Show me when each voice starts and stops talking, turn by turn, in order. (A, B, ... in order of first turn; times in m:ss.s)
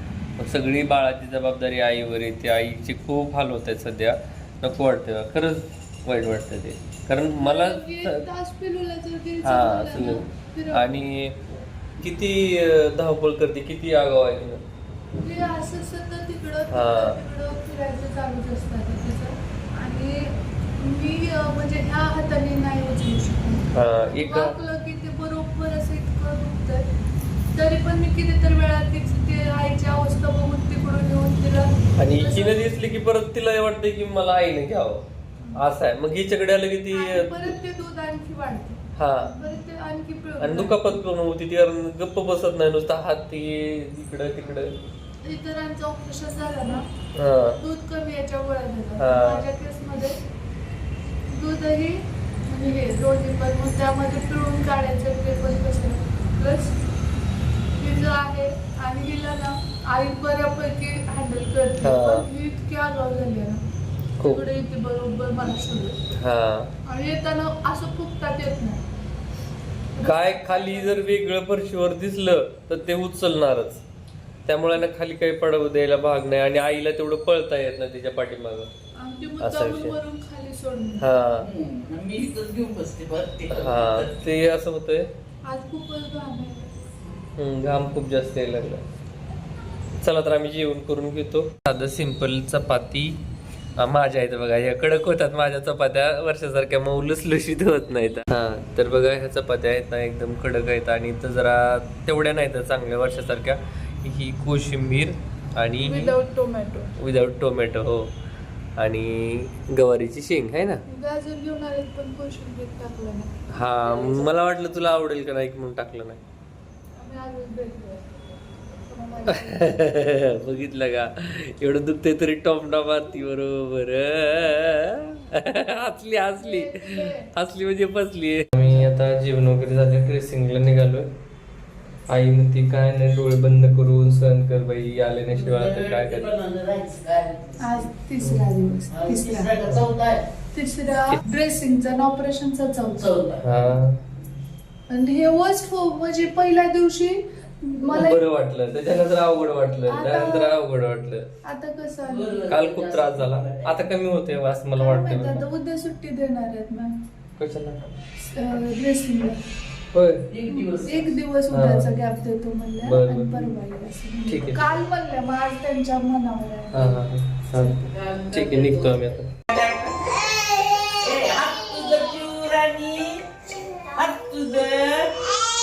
0:00.4-0:08.2 A
0:07.4-0:10.9 B
0:09.4-0:11.4 A
0:12.0-0:14.6 A
0:15.2-0:26.9 B
0:16.7-0:17.2 A
0:23.7-0:24.5 A
0:27.5-0:32.7 B
0:32.0-0:35.0 A
0:35.6-0:37.5 A
0:36.9-0:41.0 B
0:39.0-0:39.4 A
0:40.4-0:44.7 A
0:45.2-0:46.8 B
0:47.1-0:47.6 A
0:47.5-0:50.2 B
0:49.0-0:49.4 A
0:51.4-0:56.8 B
0:57.8-1:03.6 B
1:01.8-1:02.2 A
1:04.2-1:04.4 A
1:04.2-1:06.0 B
1:06.1-1:06.7 A
1:06.9-1:08.8 B
1:10.0-1:11.1 B
1:10.0-1:13.8 A
1:14.4-1:18.7 A
1:19.0-1:21.1 B
1:19.4-1:19.9 A
1:21.0-1:21.5 A
1:21.4-1:24.1 C
1:23.5-1:25.1 A
1:25.5-1:26.7 B
1:27.4-1:28.8 A
1:30.0-1:33.2 A
1:33.8-1:46.2 A
1:45.8-1:46.9 B
1:47.0-1:48.1 A
1:48.8-1:50.8 A
1:50.9-1:53.3 B
1:53.5-1:56.2 A
1:53.8-1:54.2 B
1:57.0-1:58.0 B
1:58.9-1:59.9 B
1:59.3-2:11.1 A
2:06.4-2:07.3 B
2:12.1-2:16.3 A
2:15.3-2:17.8 C
2:17.6-2:19.7 B
2:18.9-2:20.3 C
2:20.5-2:23.1 B
2:23.0-2:23.4 C
2:23.4-2:24.0 A
2:24.9-2:28.2 B
2:27.9-2:31.3 A
2:29.9-2:30.6 B
2:31.4-2:32.5 B
2:32.0-2:33.8 C
2:32.5-2:35.4 A
2:34.8-2:36.9 B
2:37.4-2:37.8 A
2:38.2-2:39.4 B
2:39.9-2:40.2 A
2:40.3-2:41.2 C
2:40.5-2:47.0 B
2:41.5-2:41.8 A
2:42.8-2:43.5 A
2:44.3-2:44.8 A
2:46.7-2:49.3 A
2:47.8-2:50.2 C
2:51.0-2:53.2 C
2:53.8-2:55.3 C